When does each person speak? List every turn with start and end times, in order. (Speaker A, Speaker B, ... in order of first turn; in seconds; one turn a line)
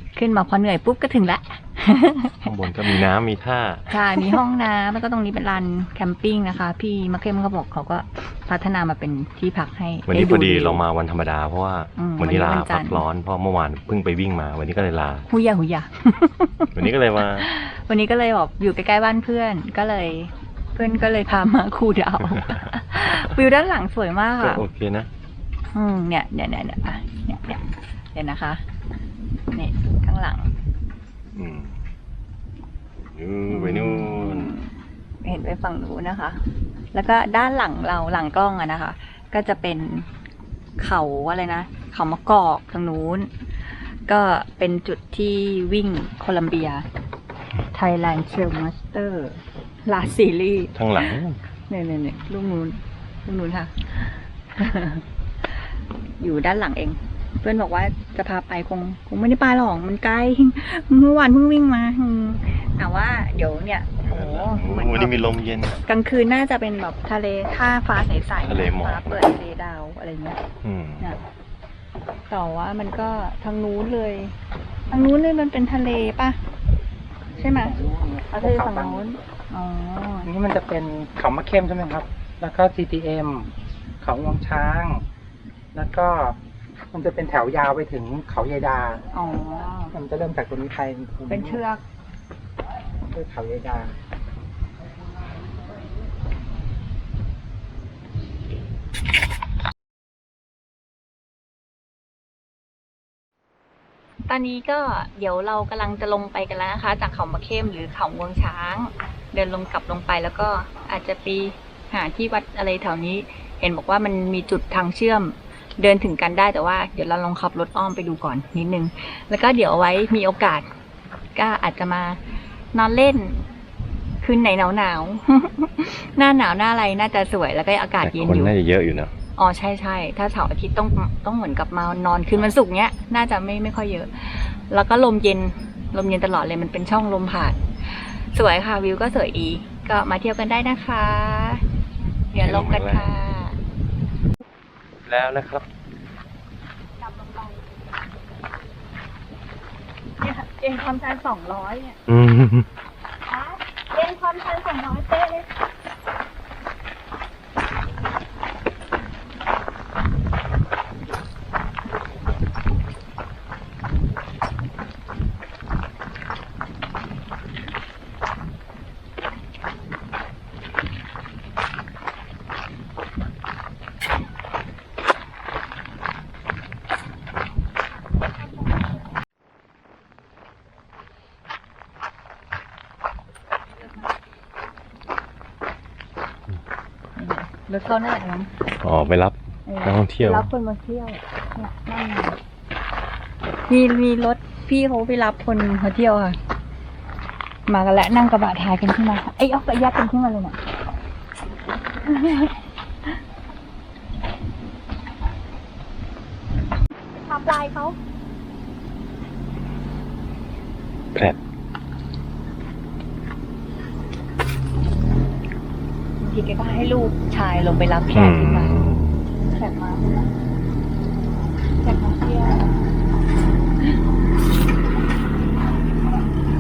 Speaker A: 0.1-2.5
Speaker B: 2.4-4.4
Speaker A: 3.9-10.8
Speaker B: 10.1-15.3
Speaker A: 12.0-13.0
Speaker A: 15.3-24.6
Speaker B: 16.7-17.5
Speaker B: 24.4-25.1
Speaker A: 25.7-27.6
Speaker A: 28.1-28.6
Speaker A: 29.5-30.5
Speaker B: 31.3-31.8
Speaker B: 33.1-34.5
Speaker A: 33.5-36.4
Speaker A: 36.9-40.1
Speaker A: 40.8-43.3
Speaker A: 44.1-46.8
Speaker A: 47.7-51.2
Speaker B: 50.7-51.4
Speaker A: 51.7-55.0
Speaker A: 56.2-65.2
Speaker B: 64.0-65.8
Speaker A: 65.8-70.4
Speaker B: 68.4-69.1
Speaker B: 70.6-71.1
Speaker A: 72.3-74.3
Speaker A: 74.9-76.4
Speaker A: 77.4-77.8
Speaker C: 77.4-79.0
Speaker A: 78.3-80.3
Speaker C: 80.2-85.0
Speaker C: 85.7-86.4
Speaker C: 86.9-89.0
Speaker A: 89.1-89.9
Speaker C: 89.9-91.6
Speaker A: 91.3-91.8
Speaker C: 93.1-94.0
Speaker A: 104.3-120.7
Speaker A: 121.3-122.2
Speaker A: 122.7-123.5
Speaker A: 124.2-128.5
Speaker B: 128.0-129.1
Speaker A: 129.3-141.6
Speaker A: 142.3-143.6
Speaker B: 142.3-143.1
Speaker B: 145.1-145.7
Speaker A: 147.0-147.7
Speaker A: 150.2-152.0
Speaker B: 152.1-152.7
Speaker A: 153.3-155.5
Speaker A: 187.2-188.5
Speaker B: 188.8-190.5
Speaker A: 189.7-192.4
Speaker A: 193.7-196.4
Speaker A: 197.7-200.6
Speaker A: 202.0-203.2
Speaker A: 207.1-208.0
Speaker A: 216.2-218.7
Speaker B: 218.1-219.2
Speaker A: 219.5-220.3
Speaker A: 221.8-222.7